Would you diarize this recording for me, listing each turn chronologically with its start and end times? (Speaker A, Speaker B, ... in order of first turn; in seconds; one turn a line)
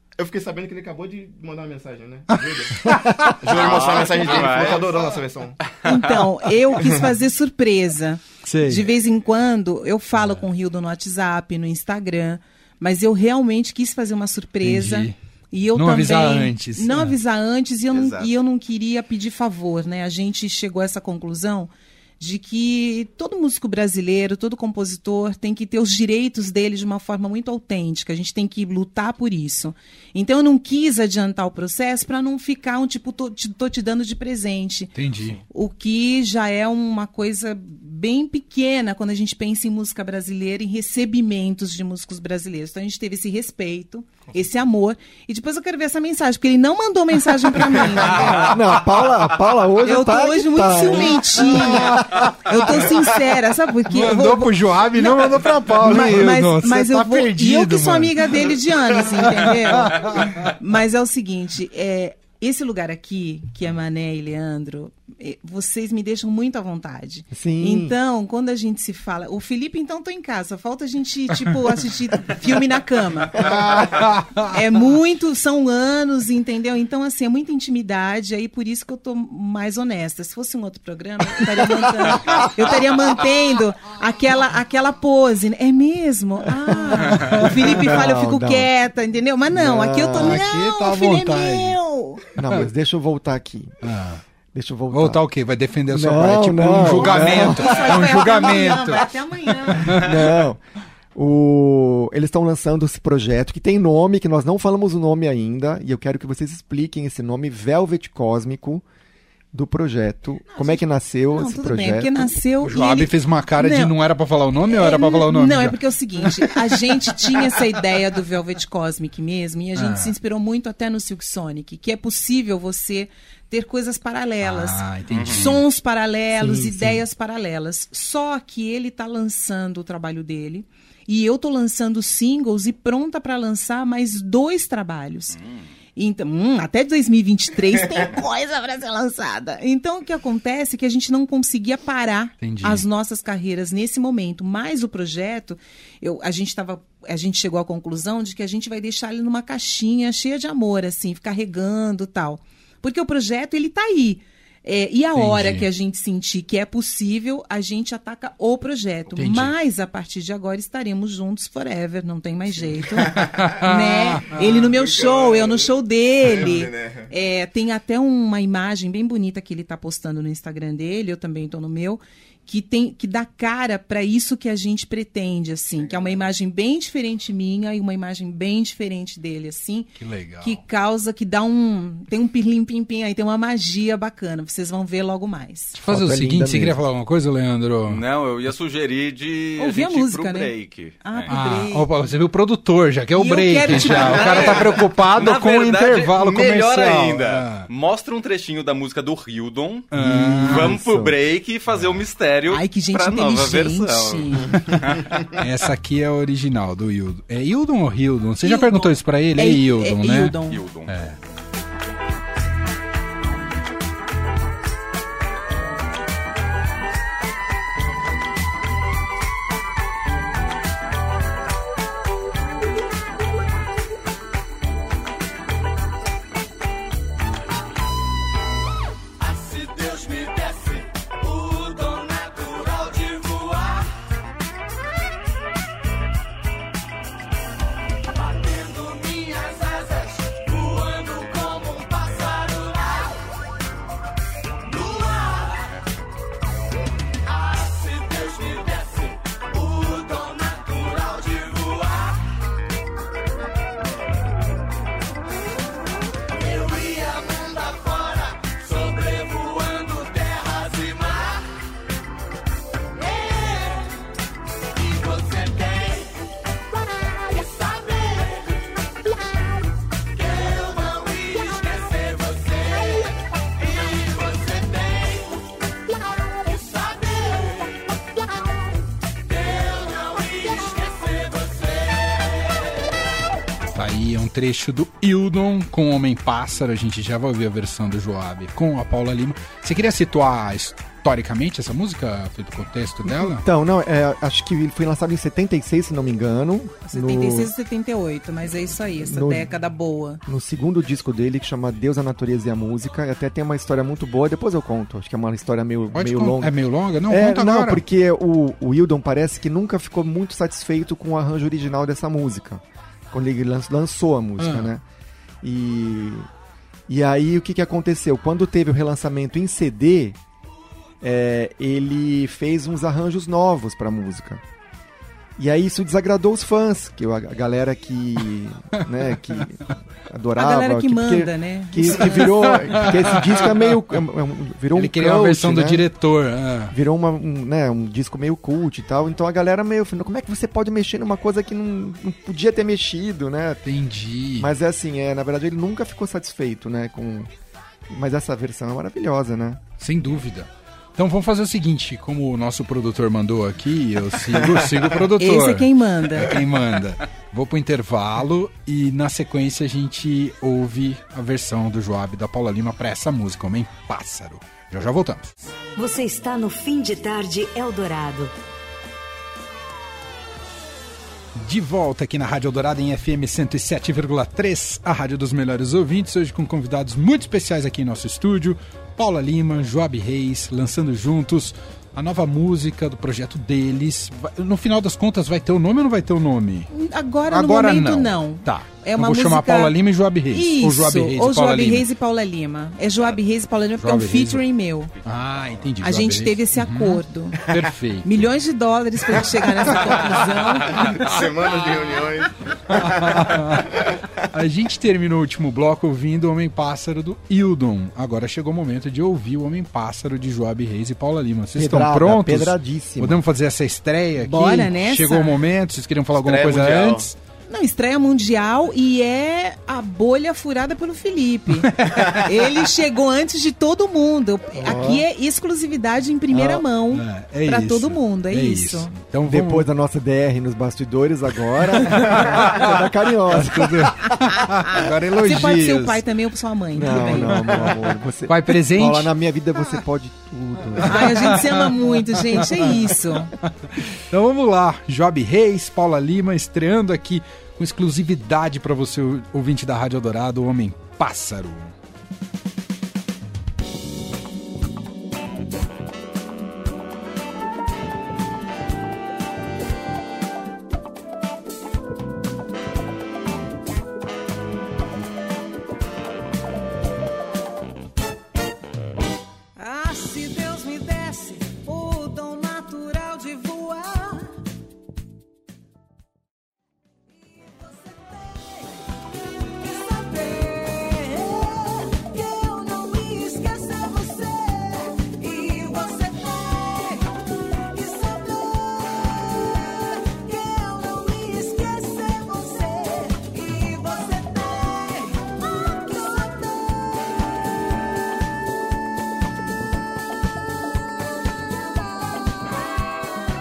Speaker A: 0.2-5.8
Speaker B: 2.4-3.4
Speaker C: 3.5-5.0
Speaker C: 5.7-6.3
Speaker D: 5.8-35.0
Speaker A: 6.7-7.2
Speaker B: 8.4-8.9
Speaker B: 10.2-10.4
Speaker B: 14.6-15.2
Speaker B: 15.7-17.2
Speaker C: 17.9-18.2
Speaker A: 18.0-18.3
Speaker B: 35.0-35.4
Speaker D: 35.5-48.6
Speaker E: 48.2-51.5
Speaker D: 49.8-92.3
Speaker B: 51.8-52.6
Speaker B: 53.9-58.4
Speaker B: 59.4-60.5
Speaker E: 67.3-68.0
Speaker B: 73.4-74.6
Speaker B: 81.7-82.3
Speaker B: 87.1-87.5
Speaker E: 87.4-88.7
Speaker E: 89.5-90.4
Speaker B: 90.1-91.8
Speaker E: 92.4-93.9
Speaker B: 93.8-94.2
Speaker E: 94.5-95.2
Speaker B: 94.9-100.0
Speaker E: 95.9-98.1
Speaker D: 97.0-100.3
Speaker E: 99.8-100.6
Speaker E: 101.1-108.8
Speaker E: 109.5-112.3
Speaker D: 110.5-114.0
Speaker B: 112.6-116.5
Speaker D: 114.7-135.4
Speaker B: 119.8-120.1
Speaker B: 124.4-125.6
Speaker C: 125.1-125.5
Speaker E: 126.4-127.0
Speaker C: 135.4-135.7
Speaker D: 136.0-179.9
Speaker B: 142.4-142.9
Speaker B: 155.1-155.7
Speaker B: 159.2-159.5
Speaker B: 163.0-164.4
Speaker A: 163.1-163.6
Speaker A: 164.3-167.1
Speaker A: 175.8-176.2
Speaker B: 180.0-180.6
Speaker D: 180.4-185.8
Speaker E: 185.8-186.8
Speaker B: 185.8-188.0
Speaker C: 187.9-191.3
Speaker D: 189.6-191.9
Speaker B: 191.3-197.7
Speaker D: 193.2-194.7
Speaker C: 193.7-199.9
Speaker B: 199.9-200.8
Speaker E: 200.0-201.2
Speaker C: 200.4-205.2
Speaker D: 202.5-204.8
Speaker B: 205.3-211.2
Speaker D: 208.4-210.6
Speaker C: 210.5-210.9
Speaker C: 229.6-230.5
Speaker C: 231.5-233.3
Speaker C: 238.8-239.4
Speaker C: 280.6-280.9
Speaker B: 283.7-293.5
Speaker E: 293.1-297.5
Speaker D: 296.9-300.2
Speaker E: 299.0-299.5
Speaker E: 300.3-314.8
Speaker B: 305.9-307.8
Speaker B: 314.4-314.7
Speaker E: 315.4-316.3
Speaker E: 316.9-320.2
Speaker E: 321.0-324.4
Speaker E: 325.4-335.9
Speaker D: 330.4-332.9
Speaker B: 332.0-333.7
Speaker B: 334.8-336.8
Speaker E: 336.7-343.7
Speaker B: 343.6-344.5
Speaker E: 344.4-347.3
Speaker E: 347.9-349.6
Speaker B: 349.8-365.3
Speaker A: 354.3-354.9
Speaker D: 355.2-356.4
Speaker F: 365.8-368.3
Speaker B: 371.4-386.7
Speaker D: 386.7-389.8
Speaker B: 387.3-391.9
Speaker D: 390.3-394.9
Speaker B: 393.8-394.4
Speaker B: 395.0-398.1
Speaker C: 395.1-395.6
Speaker D: 395.8-397.5
Speaker D: 398.0-402.1
Speaker A: 400.9-404.2
Speaker B: 402.7-403.8
Speaker B: 404.3-417.1
Speaker E: 411.6-413.2
Speaker D: 414.2-415.4
Speaker A: 416.1-417.1
Speaker D: 417.5-428.9
Speaker B: 421.6-422.3
Speaker E: 424.6-425.1
Speaker E: 426.3-426.7
Speaker B: 426.9-429.7
Speaker E: 429.3-434.1
Speaker B: 431.8-432.7
Speaker B: 433.3-436.1
Speaker D: 434.4-437.7
Speaker E: 436.8-441.5
Speaker B: 437.3-437.8
Speaker B: 438.3-439.1
Speaker B: 440.8-442.8
Speaker D: 440.8-443.3
Speaker B: 443.4-451.8
Speaker D: 469.6-474.4
Speaker D: 477.3-478.8
Speaker D: 479.4-496.6